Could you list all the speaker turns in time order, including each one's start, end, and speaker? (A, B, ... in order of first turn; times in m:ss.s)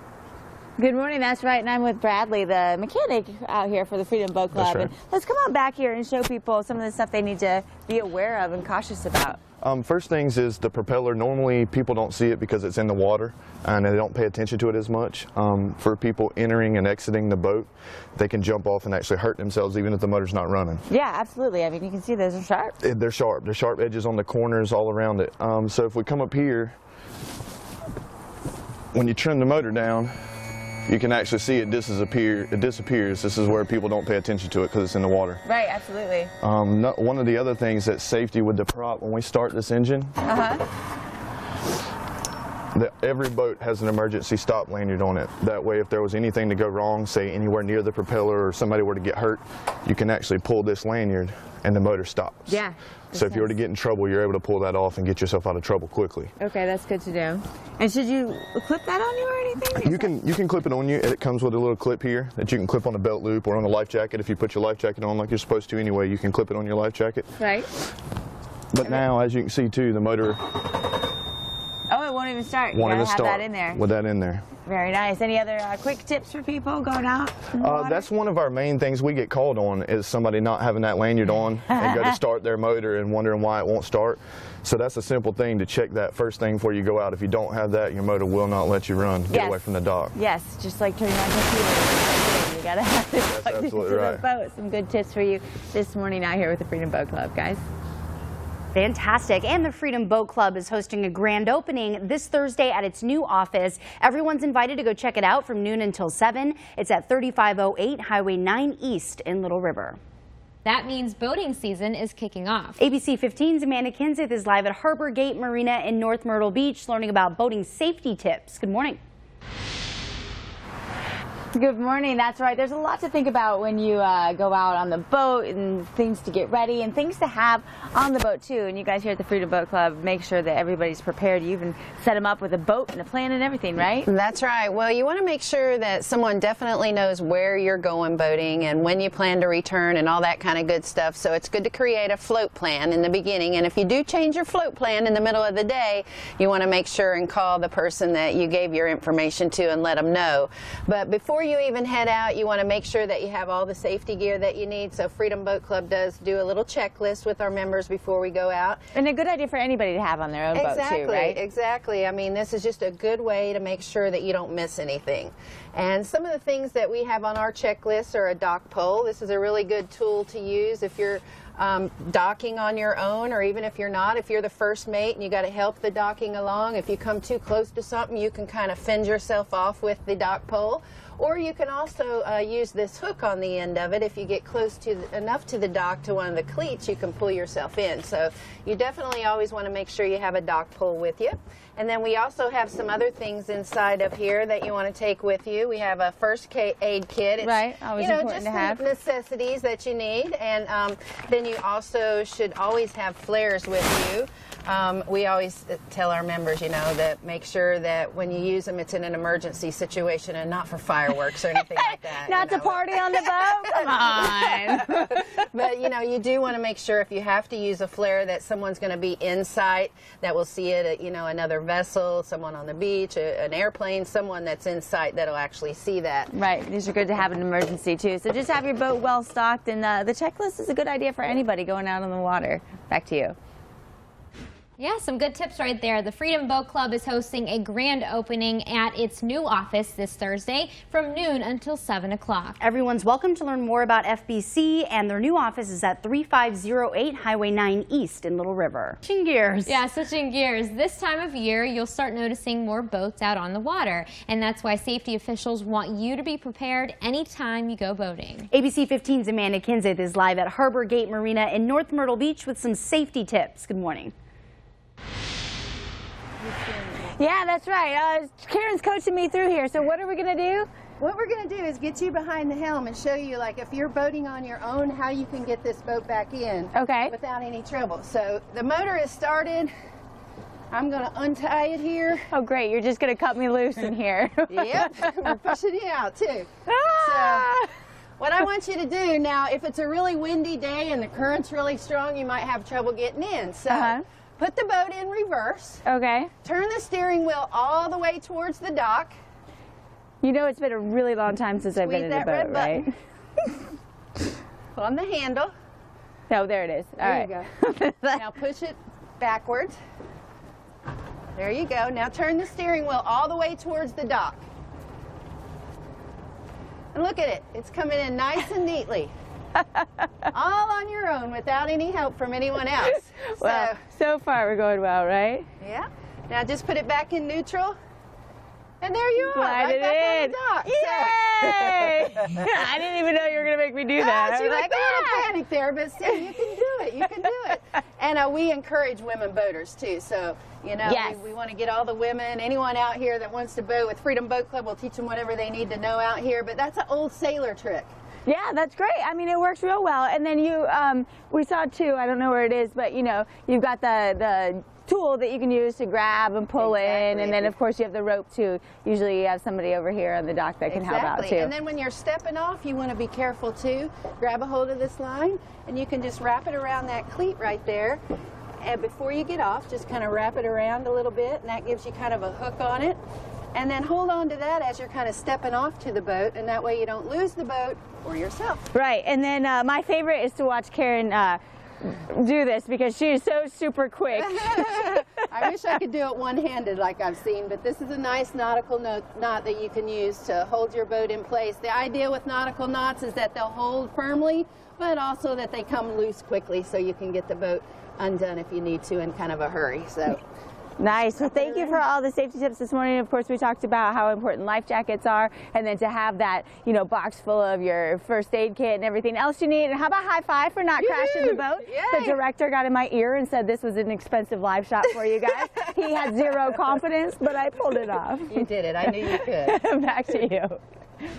0:00.8-0:09.4 A
0:04.5-0:04.9 B
0:09.6-0:20.8 B
0:20.9-0:22.7 A
0:22.8-0:26.8 B
0:28.9-0:30.2 B
0:30.9-0:35.4 B
0:35.5-0:36.3 A
0:36.4-0:40.1 B
0:40.2-0:40.6 A
0:42.8-0:52.6 B
0:52.5-0:53.5 A
0:53.1-0:56.3 B
0:56.4-1:00.1 A
0:59.8-1:07.3 B
1:07.4-1:07.7 A
1:08.7-1:10.4 B
1:11.9-1:13.8 A
1:12.8-1:14.5 B
1:14.6-1:18.1 A
1:17.6-1:30.1 B
1:21.7-1:22.2 A
1:29.3-1:37.6 A
1:33.3-1:34.2 B
1:38.7-1:50.0 C
1:50.6-1:52.8 D
1:52.8-1:59.0 C
2:01.6-2:14.1 A
2:14.1-2:38.9 E
2:38.9-2:41.4 A
2:40.5-3:46.3 E
3:17.4-3:18.8 A
3:31.7-3:35.4 A
3:46.3-3:53.4 A
3:54.8-4:02.6 D
4:02.6-4:09.8 C
4:09.7-4:18.5 D
4:18.5-4:24.1 C
4:26.8-4:30.7 A
4:31.0-4:39.7 E
4:36.7-4:37.1 A
4:40.7-4:42.2 E
4:42.3-4:45.3 A
4:44.5-4:47.5 E
4:46.7-4:47.7 A
4:48.2-4:55.8 E
4:53.7-4:54.0 A
4:55.9-4:56.3 A
4:56.4-4:59.2 E
5:00.2-5:02.9 A
5:01.8-5:02.8 E
5:04.8-5:05.5 E
5:06.3-5:08.3 A
5:07.0-5:07.5 E
5:08.1-5:09.8 E
5:11.4-5:14.4 E
5:16.9-5:19.1 E
5:19.6-5:20.0 A
5:20.3-5:23.8 E
5:22.8-5:25.5 A
5:25.6-5:27.8 E
5:28.8-5:32.4 E
5:29.2-5:35.3 A
5:34.0-5:47.9 E
5:40.8-5:41.2 A
5:48.3-6:01.5 A
5:56.6-5:57.5 E
6:00.7-6:08.0 E
6:08.6-6:13.0 E
6:13.5-6:18.7 E
6:18.7-6:25.5 A
6:24.2-6:40.2 E
6:40.8-7:00.6 A
6:41.2-6:41.8 E
6:50.8-6:52.2 E
6:58.3-6:59.6 E